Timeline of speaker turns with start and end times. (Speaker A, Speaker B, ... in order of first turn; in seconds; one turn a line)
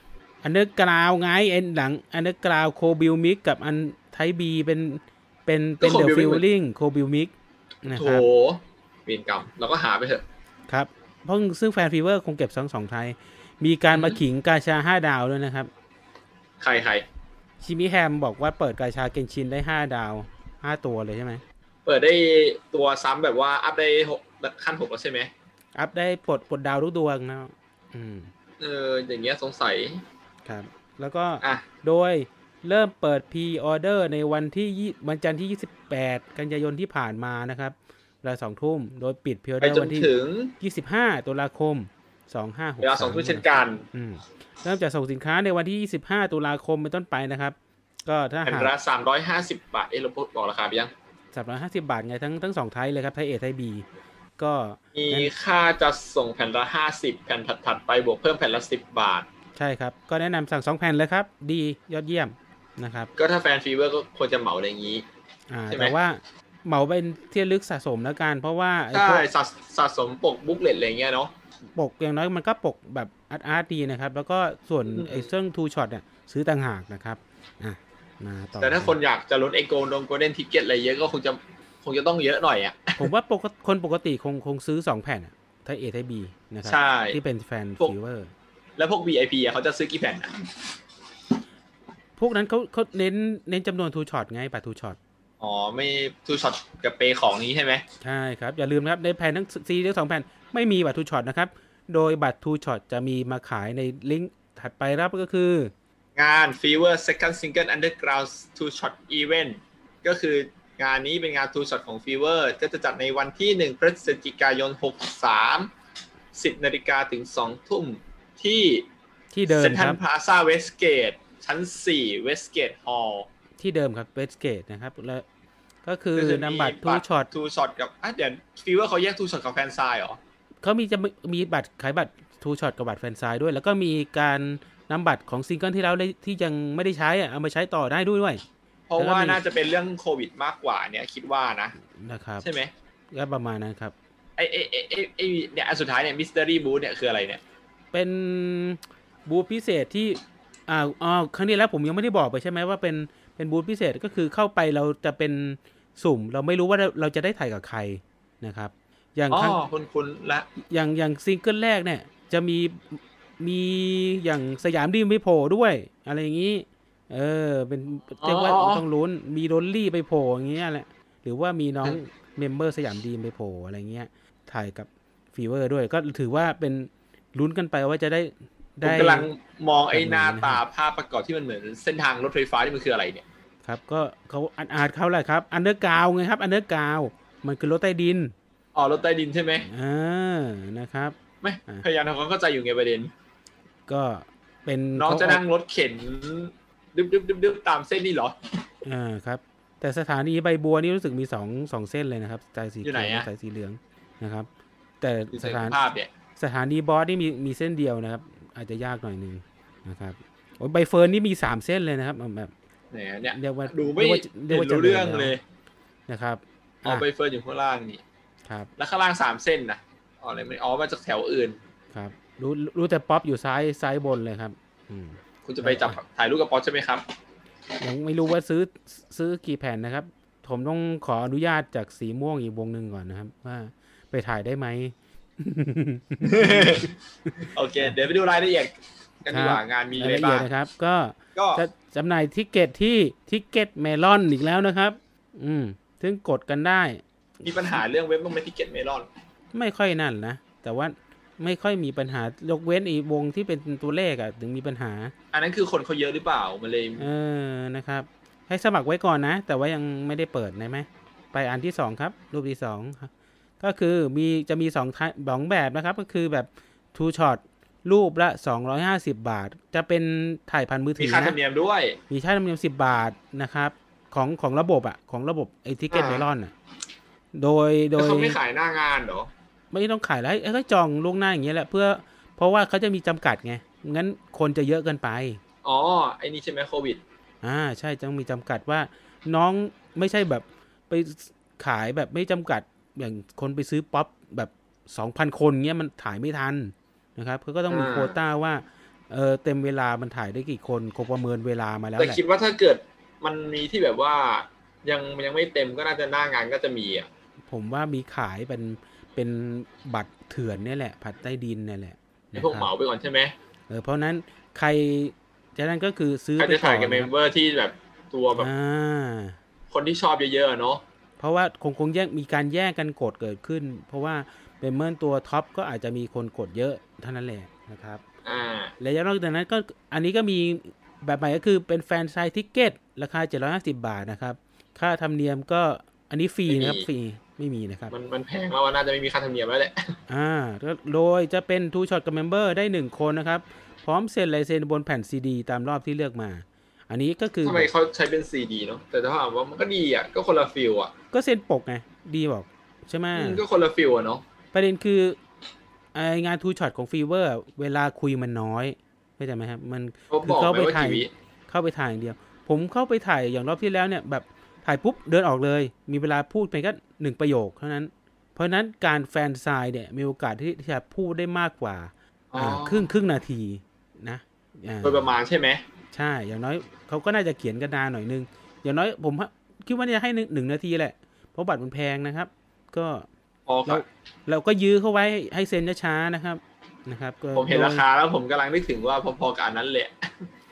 Speaker A: 0.4-7.3
Speaker B: 5.8-6.4
Speaker A: 7.8-8.2
Speaker B: 7.9-10.2
Speaker A: 10.7-15.7
Speaker B: 16.6-17.0
Speaker A: 17.6-21.4
Speaker B: 21.9-25.3
Speaker A: 25.7-28.3
Speaker B: 28.6-30.0
Speaker A: 30.4-48.7
Speaker B: 39.6-40.5
Speaker B: 42.8-43.9
Speaker B: 48.4-50.9
Speaker A: 51.3-53.8
Speaker A: 54.4-55.3
Speaker B: 54.9-59.3
Speaker A: 59.5-63.1
Speaker B: 63.1-65.0
Speaker A: 65.5-69.2
Speaker B: 68.9-71.3
Speaker A: 71.7-78.9
Speaker B: 74.9-75.3
Speaker B: 78.6-83.1
Speaker A: 83.0-88.3
Speaker B: 86.6-87.2
Speaker B: 88.8-90.3
Speaker A: 92.2-95.0
Speaker B: 95.4-97.8
Speaker A: 98.0-105.7
Speaker B: 106.2-115.7
Speaker B: 116.3-118.8
Speaker A: 119.3-120.0
Speaker B: 119.5-123.3
Speaker A: 123.6-125.2
Speaker A: 125.8-127.3
Speaker B: 126.1-130.2
Speaker A: 130.6-138.4
Speaker B: 138.9-141.7
Speaker A: 139.0-139.4
Speaker A: 141.9-142.4
Speaker B: 142.4-142.7
Speaker A: 143.1-143.9
Speaker B: 144.4-147.4
Speaker A: 147.9-159.6
Speaker B: 159.3-160.5
Speaker A: 160.7-179.3
Speaker B: 168.2-168.8
Speaker B: 178.8-183.2
Speaker A: 179.9-180.6
Speaker A: 183.6-188.3
Speaker B: 188.7-189.7
Speaker A: 189.7-191.2
Speaker B: 191.4-193.1
Speaker A: 193.9-195.4
Speaker B: 194.9-198.3
Speaker A: 198.8-204.5
Speaker B: 202.8-203.3
Speaker A: 205.0-205.8
Speaker B: 205.3-206.1
Speaker A: 206.4-212.5
Speaker B: 212.9-215.4
Speaker A: 213.3-215.3
Speaker A: 216.1-217.0
Speaker B: 216.8-218.0
Speaker A: 218.4-218.7
Speaker B: 218.8-221.6
Speaker A: 221.9-226.0
Speaker B: 225.4-227.0
Speaker A: 227.8-236.8
Speaker B: 236.2-238.7
Speaker B: 239.2-240.5
Speaker A: 239.3-247.5
Speaker B: 241.3-241.6
Speaker B: 247.4-249.1
Speaker A: 249.5-255.1
Speaker B: 255.3-257.1
Speaker A: 257.0-271.4
Speaker B: 271.0-272.0
Speaker A: 272.1-276.5
Speaker B: 275.9-276.2
Speaker A: 277.3-278.4
Speaker B: 278.0-279.3
Speaker A: 279.7-285.4
Speaker B: 285.6-287.0
Speaker A: 287.4-302.2
Speaker B: 297.7-298.1
Speaker B: 302.0-307.1
Speaker A: 307.5-312.7
Speaker B: 312.3-313.3
Speaker A: 313.7-317.1
Speaker B: 316.4-318.5
Speaker A: 318.4-319.4
Speaker B: 319.7-320.8
Speaker A: 321.2-328.0
Speaker B: 328.2-328.7
Speaker A: 328.8-337.9
Speaker B: 336.5-336.9
Speaker B: 337.9-340.0
Speaker A: 340.1-347.7
Speaker B: 347.4-350.9
Speaker A: 351.1-353.4
Speaker B: 353.1-354.2
Speaker A: 354.5-355.2
Speaker A: 355.9-375.1
Speaker B: 360.1-361.1
Speaker B: 372.3-372.9
Speaker B: 374.8-375.6
Speaker A: 375.9-383.1
Speaker B: 383.5-383.9
Speaker A: 383.7-387.8
Speaker B: 387.3-390.0